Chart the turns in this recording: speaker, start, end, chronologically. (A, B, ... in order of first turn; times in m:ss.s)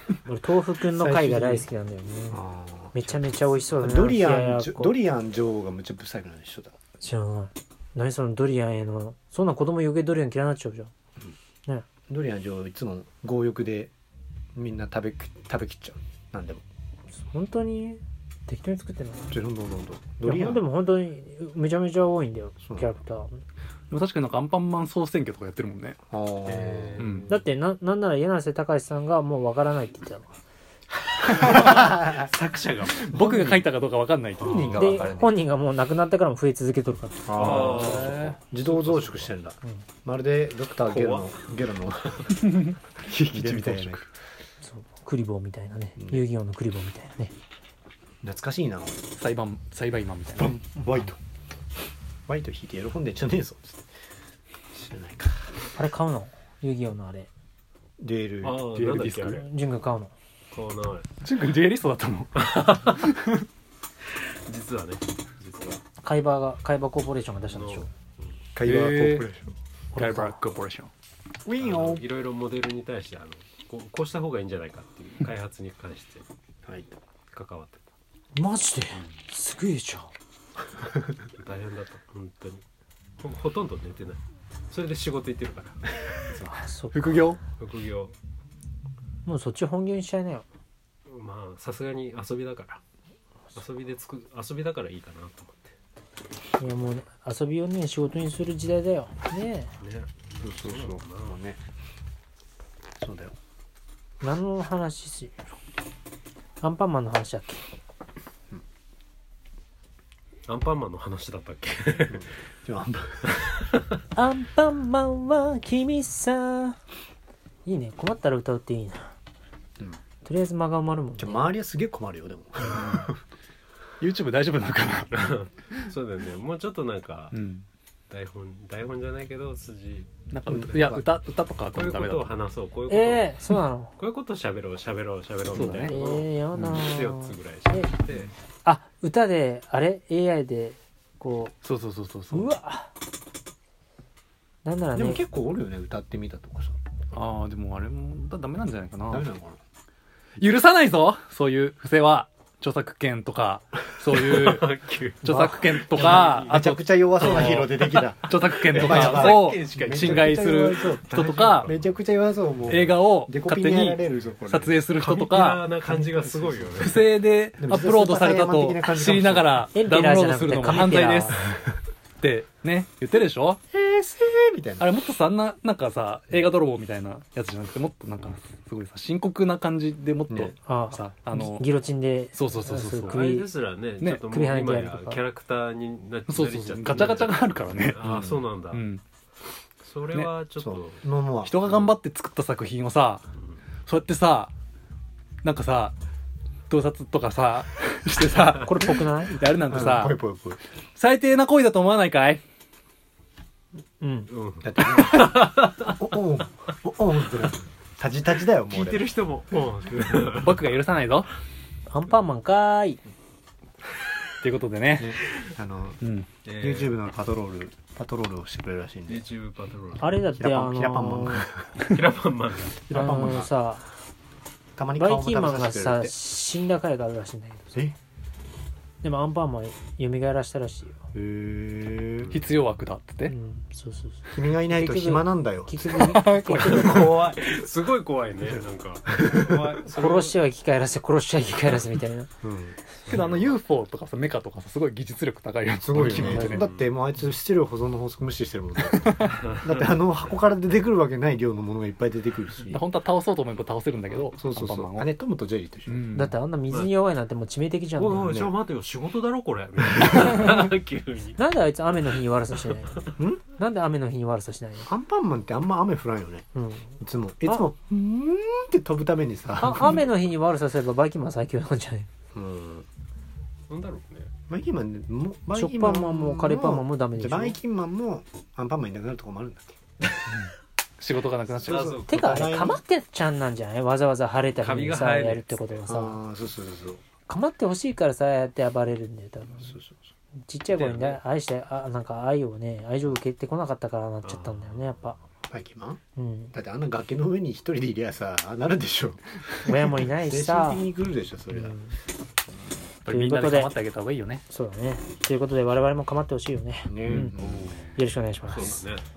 0:00.3-0:02.4 A
0:00.9-0:01.7 B
0:02.3-0:06.8 B
0:02.9-0:04.9 A
0:07.0-0:10.9 A
0:12.1-0:13.9 B
0:14.6-0:16.6 B
0:17.2-0:19.4 A
0:19.3-0:20.6 B
0:20.2-0:23.3 A
0:22.6-0:22.9 B
0:23.9-0:26.0 C
0:26.1-0:27.0 B
0:26.5-0:27.4 D
0:27.0-0:27.3 C
0:27.3-0:30.4 A
0:31.3-0:31.8 C
0:31.6-0:32.3 B
0:32.1-0:33.2 D
0:33.0-0:34.9 C
0:33.2-0:33.7 B
0:34.4-0:35.3 B
0:34.4-0:34.7 D
0:34.6-0:38.0 A
0:37.3-0:42.5 B
0:37.4-0:39.3 C
0:37.4-0:38.3 D
0:40.8-0:41.5 D
0:42.4-0:44.1 C
0:43.2-0:44.0 B
0:44.6-0:47.3 A
0:48.2-0:49.0 B
0:49.2-0:50.6 C
0:50.3-0:51.2 B
0:52.3-0:53.9 B
0:54.7-0:55.5 B
0:55.8-0:57.3 A
0:58.0-0:58.6 B
0:58.4-0:59.5 D
0:58.7-0:59.4 C
0:59.3-1:00.1 A
1:00.5-1:01.1 D
1:01.2-1:03.5 C
1:02.4-1:03.0 D
1:04.5-1:05.8 D
1:05.9-1:07.9 A
1:07.5-1:07.9 D
1:08.6-1:09.5 B
1:08.6-1:09.3 C
1:10.0-1:10.4 A
1:10.0-1:10.9 C
1:11.4-1:12.0 B
1:11.6-1:16.2 D
1:16.7-1:16.9 B
1:17.3-1:17.8 D
1:18.4-1:20.1 A
1:21.4-1:22.6 D
1:23.2-1:25.8 D
1:26.4-1:27.4 C
1:26.5-1:27.3 A
1:27.6-1:28.2 D
1:29.2-1:30.4 A
1:31.1-1:32.8 D
1:33.6-1:35.8 D
1:36.6-1:39.7 A
1:39.8-1:41.4 D
1:40.4-1:41.6 B
1:43.0-1:43.3 B
1:44.2-1:45.4 A
1:46.6-1:47.6 A
1:50.5-1:52.3 D
1:52.2-1:53.4 B
1:54.1-1:56.8 A
1:57.6-1:59.1 A
2:00.2-2:01.5 A
2:01.2-2:03.2 B
2:02.7-2:03.0 C
2:04.0-2:05.8 C
2:05.1-2:07.4 D
2:07.3-2:07.7 C
2:08.1-2:10.9 D
2:10.3-2:12.4 C
2:10.5-2:11.1 B
2:11.7-2:13.4 D
2:12.9-2:13.9 A
2:14.0-2:18.3 D
2:15.5-2:16.0 C
2:15.9-2:17.9 A
2:16.6-2:16.8 C
2:18.6-2:21.6 A
2:21.6-2:22.5 C
2:22.3-2:22.9 A
2:24.6-2:25.2 A
2:24.9-2:26.8 B
2:27.1-2:29.3 C
2:29.1-2:29.6 B
2:30.4-2:34.7 C
2:34.1-2:36.7 D
2:35.2-2:41.7 C
2:35.3-2:44.8 B
2:38.6-2:40.5 D
2:41.4-2:41.8 D
2:42.7-2:45.8 C
2:45.0-2:47.1 D
2:46.0-2:46.9 B
2:46.8-2:51.4 C
2:47.6-2:49.7 B
2:49.8-2:51.4 A
2:52.2-2:53.6 C
2:53.7-2:54.9 B
2:54.8-3:01.7 C
3:00.6-3:03.5 A
3:02.3-3:03.3 C
3:03.0-3:08.8 D
3:04.2-3:05.2 A
3:06.3-3:09.0 C
3:09.8-3:11.0 D
3:10.6-3:11.9 B
3:11.4-3:13.2 C
3:13.8-3:14.5 C
3:15.4-3:16.0 C
3:16.7-3:20.2 C
3:18.6-3:19.5 A
3:19.7-3:20.6 B
3:21.0-3:22.4 C
3:24.0-3:24.3 A
3:24.3-3:25.9 D
3:24.6-3:29.1 B
3:28.7-3:30.8 D
3:30.4-3:31.3 C
3:31.9-3:33.0 A
3:34.4-3:35.2 C
3:35.0-3:36.0 B
3:36.0-3:36.3 C
3:36.4-3:37.0 D
3:36.6-3:39.2 B
3:39.1-3:40.2 D
3:40.0-3:41.5 A
3:40.3-3:41.7 B
3:41.8-3:43.3 D
3:42.9-3:43.5 B
3:42.9-3:43.8 A
3:44.8-3:46.1 B
3:45.0-3:47.8 A
3:49.0-3:51.0 A
3:51.1-3:52.4 B
3:52.2-3:52.6 D
3:52.3-3:53.4 C
3:53.3-3:57.1 A
3:54.3-3:55.9 B
3:56.0-3:57.3 C
3:56.7-4:00.4 D
3:59.2-3:59.8 B
3:59.8-4:02.3 A
4:02.4-4:02.8 B
4:03.0-4:03.6 D
4:03.1-4:06.7 C
4:05.8-4:12.8 B
4:06.2-4:06.8 D
4:06.2-4:06.6 A
4:08.9-4:09.4 C
4:09.4-4:09.8 D
4:12.7-4:15.1 C
4:14.1-4:16.1 B
4:15.9-4:16.4 C
4:16.1-4:18.3 A
4:18.0-4:21.4 D
4:18.2-4:18.5 B
4:20.2-4:20.5 A
4:21.4-4:24.9 A
4:24.9-4:26.5 B
4:26.6-4:27.7 A
4:27.0-4:30.1 B
4:29.6-4:32.1 A
4:32.3-4:32.9 B
4:33.7-4:34.3 D
4:34.5-4:39.8 B
4:35.5-4:37.6 A
4:40.3-4:41.9 C
4:41.5-4:42.8 B
4:41.7-4:42.3 D
4:42.1-4:46.2 A
4:44.6-4:45.9 D
4:45.9-4:47.0 B
4:47.3-4:49.8 A
4:49.7-4:50.0 B
4:50.5-4:55.2 A
4:50.7-4:51.2 D
4:54.2-4:55.0 D
4:55.5-4:56.0 B
4:56.2-4:56.5 A
4:56.5-5:01.8 B
4:59.7-5:00.8 A
5:01.5-5:01.9 A
5:03.0-5:04.4 C
5:03.1-5:03.7 A
5:04.5-5:08.8 A
5:06.9-5:07.8 B
5:07.1-5:07.7 C
5:08.5-5:09.0 D